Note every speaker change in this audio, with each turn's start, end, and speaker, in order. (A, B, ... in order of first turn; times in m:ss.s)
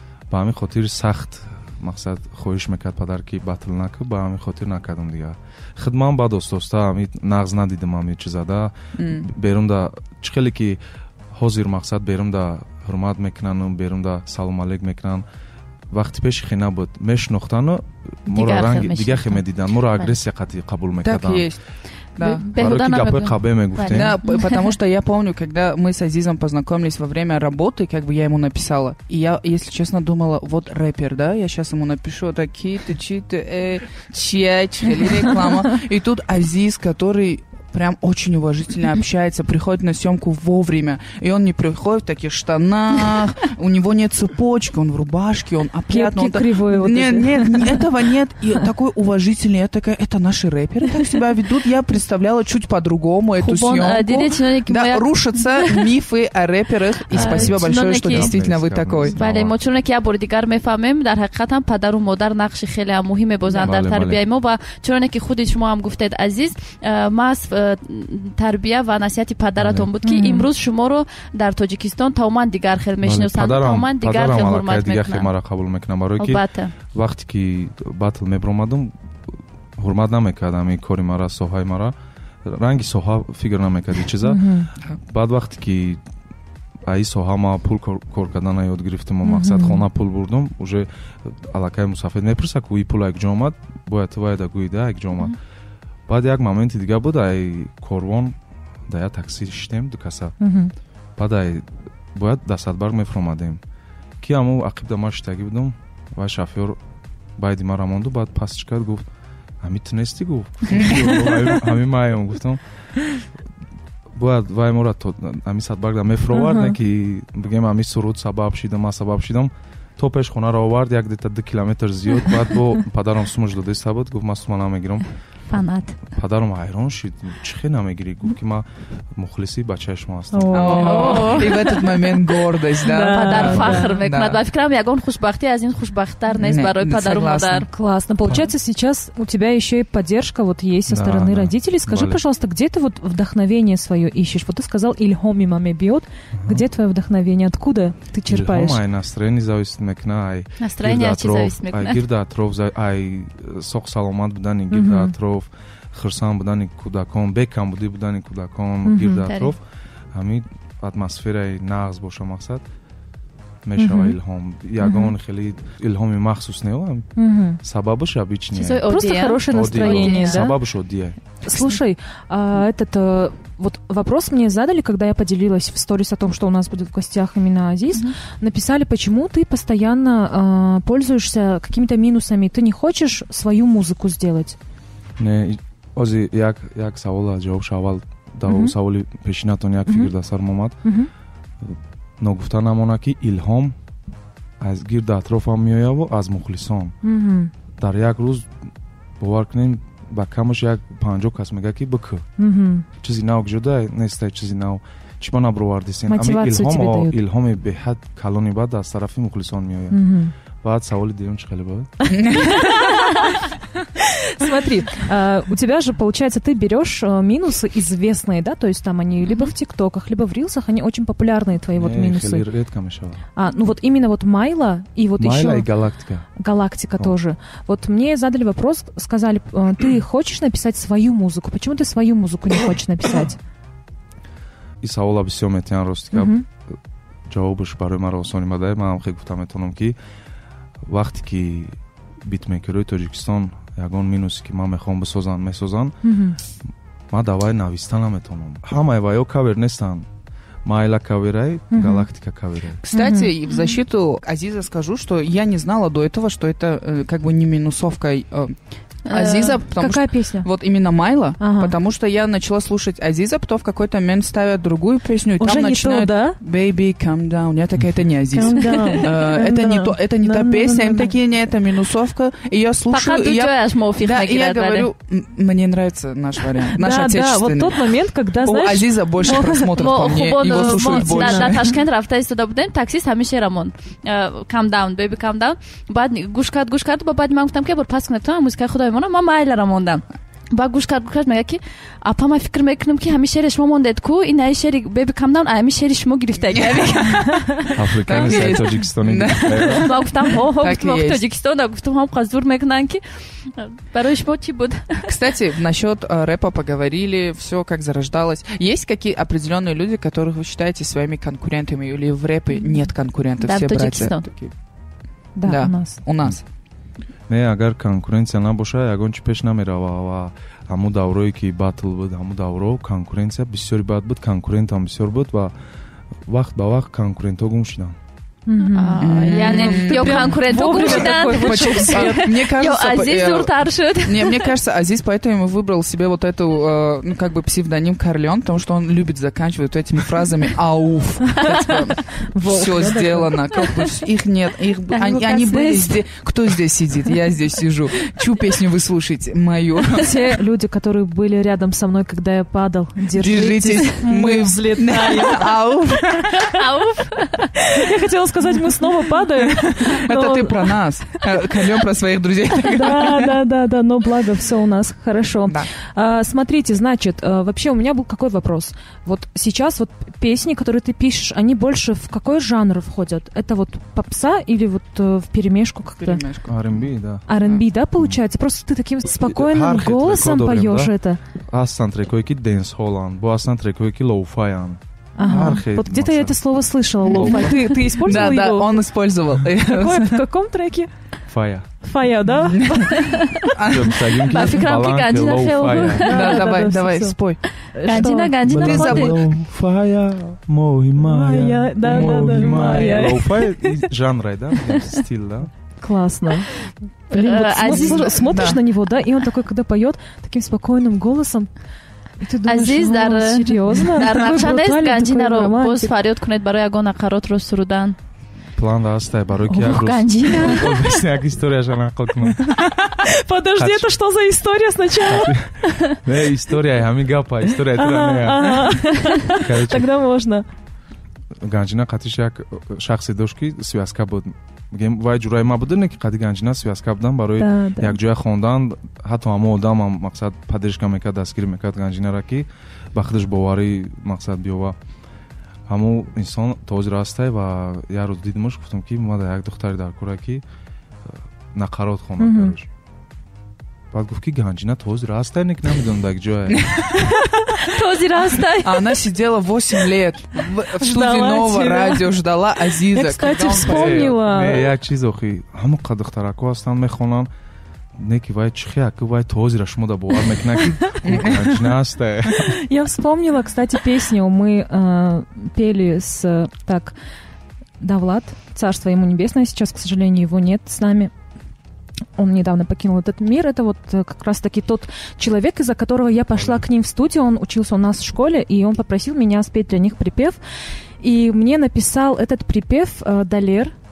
0:00.3-0:10.8 A
0:09.0-0:09.3 B
0:11.3-0:15.2 A
0:15.9-0:21.5 A
0:18.3-0:20.2 C
0:21.0-0:21.6 B
0:22.2-0:22.5 B
0:22.2-0:24.7 C
0:22.5-0:24.2 A
0:23.9-0:59.2 B
0:45.9-0:47.8 D
0:53.4-0:55.8 C
0:57.1-0:58.3 C
0:57.1-0:59.6 A
0:59.0-1:15.3 C
1:03.6-1:04.2 A
1:09.6-1:09.9 A
1:10.0-1:10.5 D
1:13.0-1:16.4 A
1:16.2-1:16.7 C
1:16.9-1:18.9 A
1:19.8-1:26.0 A
1:24.2-1:24.7 D
1:26.8-1:35.3 A
1:29.2-1:29.8 D
1:36.1-1:38.4 A
1:38.9-1:40.4 A
1:40.4-1:40.7 D
1:41.2-1:43.6 A
1:44.2-1:46.8 A
1:47.4-1:49.0 A
1:49.6-1:52.6 A
1:50.7-1:51.0 B
1:54.1-2:05.1 A
1:56.3-1:56.8 D
2:05.5-2:06.0 C
2:06.1-2:11.1 A
2:10.3-2:11.9 D
2:10.5-2:14.4 B
2:10.7-2:11.8 C
2:12.8-2:14.0 D
2:13.1-2:17.7 C
2:13.5-2:13.8 A
2:16.4-2:17.7 B
2:17.7-2:28.8 D
2:18.2-2:18.5 A
2:20.9-2:22.2 A
2:26.3-2:26.6 A
2:28.3-2:39.6 A
2:30.6-2:32.0 C
2:34.7-2:35.1 D
2:38.8-2:39.3 D
2:39.2-2:39.5 C
2:40.1-2:42.6 A
2:43.6-2:48.9 A
2:43.8-2:44.1 D
2:44.8-2:45.1 D
2:47.2-2:47.6 D
2:48.5-2:50.4 C
2:48.8-2:50.6 D
2:49.5-2:51.2 A
2:51.4-3:04.6 D
3:05.2-3:10.8 A
3:08.4-3:08.7 D
3:09.9-3:10.1 D
3:10.8-3:11.1 D
3:11.6-3:13.7 A
3:14.6-3:16.9 A
3:17.0-3:17.5 D
3:17.8-3:18.5 A
3:19.2-3:22.3 A
3:22.4-3:22.8 D
3:23.0-3:30.0 A
3:26.1-3:27.2 D
3:29.9-3:30.3 D
3:30.6-3:32.0 A
3:32.1-3:33.3 D
3:32.1-3:32.6 B
3:34.0-3:42.5 D
3:41.7-3:43.2 A
3:43.4-3:45.7 D
3:45.2-3:46.2 A
3:46.4-3:53.4 D
3:54.8-3:56.8 A
3:56.1-3:56.4 D
3:57.3-4:00.0 A
4:00.8-4:06.0 A
4:06.0-4:06.4 D
4:07.1-4:10.1 A
4:10.6-4:12.8 A
4:11.7-4:12.1 D
4:12.8-4:41.7 B
4:12.9-4:13.3 D
4:13.5-4:13.8 C
4:19.1-4:19.6 C
4:19.7-4:20.8 D
4:21.4-4:21.7 D
4:25.4-4:26.4 D
4:28.3-4:31.2 D
4:32.9-4:34.9 C
4:36.7-4:39.6 D
4:39.2-4:58.8 C
4:40.4-4:41.6 D
4:56.5-4:57.3 B
4:57.7-4:59.9 A
4:58.0-5:01.2 B
4:59.4-5:05.1 C
5:05.0-5:14.5 B
5:13.4-5:14.3 C
5:15.3-5:16.0 D
5:15.4-5:16.4 B
5:17.3-5:25.5 A
5:26.2-5:27.9 A
5:28.5-5:32.3 D
5:28.7-5:34.5 C
5:29.0-5:50.1 B
5:41.4-5:42.0 C
5:42.3-5:43.7 D
5:44.9-5:46.0 D
5:50.0-5:55.5 D
5:53.1-5:56.5 B
5:56.3-5:57.5 C
5:57.6-6:00.8 D
5:59.5-6:03.3 B
6:02.7-6:16.2 D
6:16.0-6:16.6 B
6:16.4-6:17.2 A
6:17.3-6:21.2 D
6:19.2-6:26.4 A
6:25.2-6:28.8 D
6:27.0-6:27.6 A
6:27.1-6:30.2 B
6:29.6-6:30.9 D
6:31.3-6:31.7 A
6:31.8-6:33.1 D
6:32.6-6:34.6 B
6:32.9-6:36.5 C
6:33.7-6:36.1 A
6:36.0-6:38.4 D
6:36.1-6:37.4 B
6:37.8-6:39.2 C
6:38.4-6:45.5 A
6:38.5-6:39.2 B
6:41.0-6:43.2 D
6:41.8-6:43.0 B
6:42.6-6:43.7 C
6:45.8-6:46.6 D
6:47.1-6:51.5 D
6:47.1-6:48.2 C
6:47.7-6:48.6 B
6:52.2-6:55.9 D
6:52.5-6:58.0 C
6:58.6-7:02.7 A
6:59.5-7:00.6 C
7:00.2-7:00.7 D
7:03.0-7:05.7 D
7:03.6-7:03.9 A
7:05.0-7:09.9 A
7:07.8-7:10.5 D
7:11.4-7:24.8 A
7:17.4-7:18.0 D
7:25.7-7:30.4 A
7:31.1-7:32.7 A
7:32.2-7:32.5 D
7:33.9-7:36.8 A
7:36.5-7:37.0 B
7:37.0-7:39.0 C
7:38.6-7:44.1 B
7:40.8-7:42.1 D
7:42.9-7:44.7 D
7:43.6-7:47.3 A
7:48.0-7:52.6 A
7:51.0-7:51.7 B
7:52.4-7:56.9 D
7:57.8-8:01.1 D
8:02.2-8:10.4 D
8:06.3-8:06.6 A
8:11.0-8:13.7 D